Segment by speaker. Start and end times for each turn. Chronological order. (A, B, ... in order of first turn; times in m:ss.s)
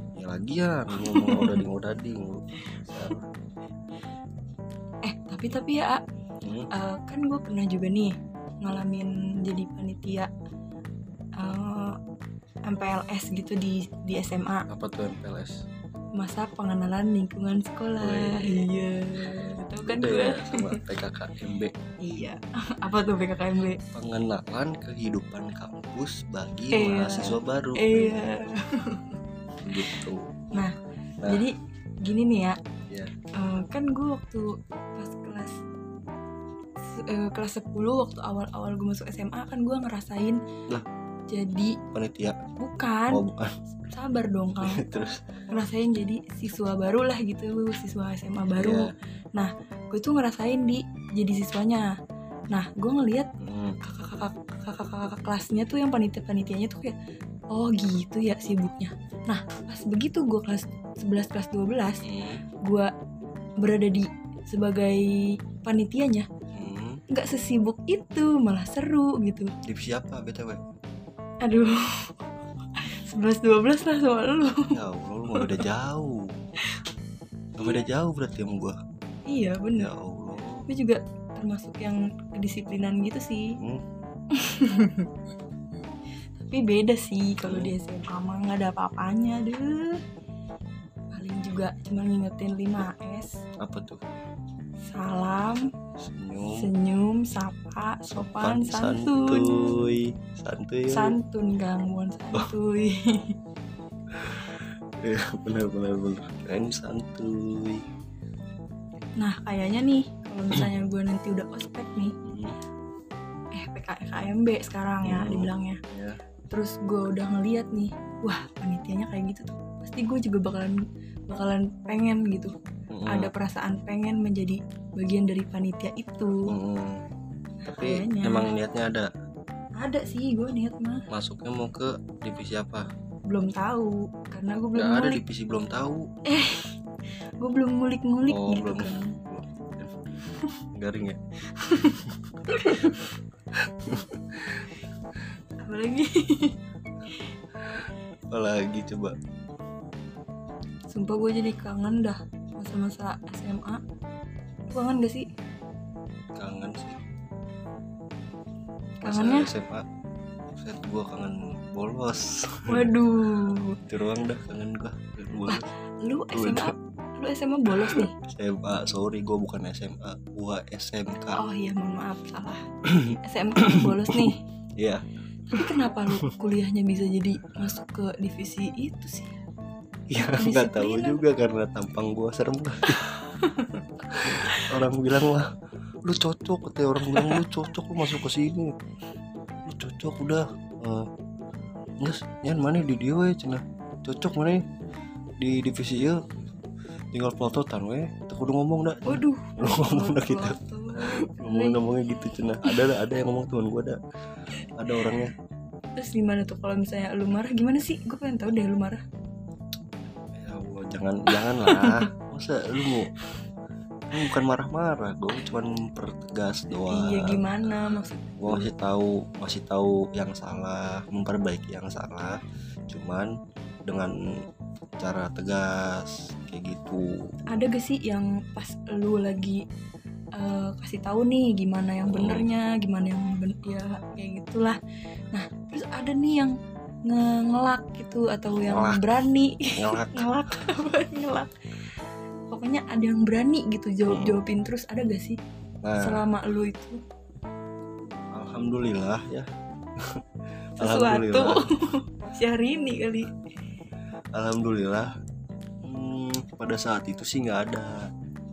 0:00.2-0:03.3 A
0:01.0-0:01.6 B
0:05.0-0:06.0 B
0:06.4-0:06.7 A
0:06.7-0:10.3 B
0:11.4-0:12.0 B
0:12.7-0:14.7 B
0:14.7-0:15.6 A
0:16.2-0:20.8 B
0:18.0-0:18.7 A
0:19.8-0:21.8 A
0:22.0-0:23.8 B
0:23.9-0:28.3 A
0:26.7-0:29.2 B
0:29.6-0:30.2 A
0:29.7-0:30.0 B
0:30.5-0:32.6 B
0:33.4-0:35.6 B
0:36.8-0:40.4 B
0:41.3-0:41.8 B
0:41.9-0:42.4 A
0:42.6-0:43.2 B
0:43.1-0:43.6 A
0:43.8-0:51.9 B
0:44.6-0:45.2 A
0:48.6-0:48.9 A
0:52.5-0:53.3 B
0:53.4-0:53.8 A
0:53.8-0:57.0 B
0:57.5-1:02.0 B
1:02.0-1:02.4 A
1:03.6-1:06.3 B
1:06.5-1:07.0 A
1:07.1-1:09.5 B
1:09.6-1:10.6 A
1:11.4-1:12.2 B
1:12.8-1:14.8 B
1:14.7-1:16.3 A
1:15.3-1:15.7 B
1:17.6-1:18.8 A
1:19.3-1:19.9 B
1:19.8-1:20.7 A
1:20.7-1:23.6 B
1:24.3-1:25.1 B
1:26.5-1:30.0 B
1:27.4-1:27.8 A
1:31.1-1:33.4 B
1:33.6-1:34.0 A
1:34.9-1:35.7 B
1:36.0-1:36.7 A
1:36.5-1:40.0 B
1:38.1-1:41.1 A
1:40.9-1:43.4 B
1:44.1-1:47.8 A
1:49.2-1:52.2 B
1:52.2-1:52.6 A
1:53.6-1:55.8 B
1:55.0-1:56.2 A
1:56.5-2:00.8 B
2:01.3-2:02.5 B
2:02.9-2:03.3 A
2:03.1-2:06.5 B
2:06.5-2:07.0 A
2:07.6-2:08.5 B
2:07.7-2:09.1 A
2:09.8-2:11.1 B
2:11.1-2:12.9 A
2:13.3-2:15.2 B
2:14.8-2:16.1 A
2:16.3-2:16.7 B
2:17.4-2:19.2 B
2:18.3-2:20.1 A
2:20.8-2:21.2 A
2:21.5-2:23.0 B
2:21.8-2:23.0 A
2:23.6-2:24.7 A
2:25.6-2:26.6 B
2:28.3-2:29.2 A
2:30.9-2:33.8 B
2:34.7-2:35.3 B
2:36.4-2:37.0 A
2:39.0-2:39.5 B
2:39.0-2:39.8 A
2:40.5-2:42.9 A
2:42.7-2:43.8 B
2:43.9-2:45.7 A
2:45.5-2:48.1 B
2:46.3-2:46.7 A
2:47.8-2:51.4 A
2:51.4-2:52.6 B
2:52.9-2:55.7 A
2:53.2-2:54.4 B
2:55.5-2:59.4 B
3:00.1-3:03.0 A
3:00.2-3:01.2 B
3:02.9-3:04.7 B
3:04.1-3:05.5 A
3:06.0-3:08.7 A
3:07.0-3:07.4 B
3:08.0-3:08.2 B
3:09.7-3:11.1 A
3:12.0-3:14.6 A
3:15.4-3:16.2 A
3:17.1-3:24.0 A
3:19.1-3:21.8 B
3:22.7-3:22.9 B
3:24.8-3:25.3 A
3:26.0-3:29.0 B
3:30.4-3:33.2 A
3:31.3-3:32.1 B
3:34.1-3:42.4 A
3:36.9-3:38.7 B
3:42.9-3:43.3 A
3:43.9-3:44.2 A
3:45.0-3:47.4 A
3:47.5-3:49.6 B
3:50.4-3:54.8 B
3:52.0-3:52.5 A
3:55.3-3:56.5 B
3:57.1-4:01.9 B
3:58.6-3:59.2 A
3:59.7-4:00.3 A
4:02.5-4:05.4 B
4:04.1-4:04.4 A
4:05.8-4:06.2 A
4:06.0-4:07.0 B
4:08.3-4:09.5 A
4:10.8-4:11.6 A
4:10.8-4:13.3 B
4:14.3-4:15.1 A
4:15.8-4:18.1 A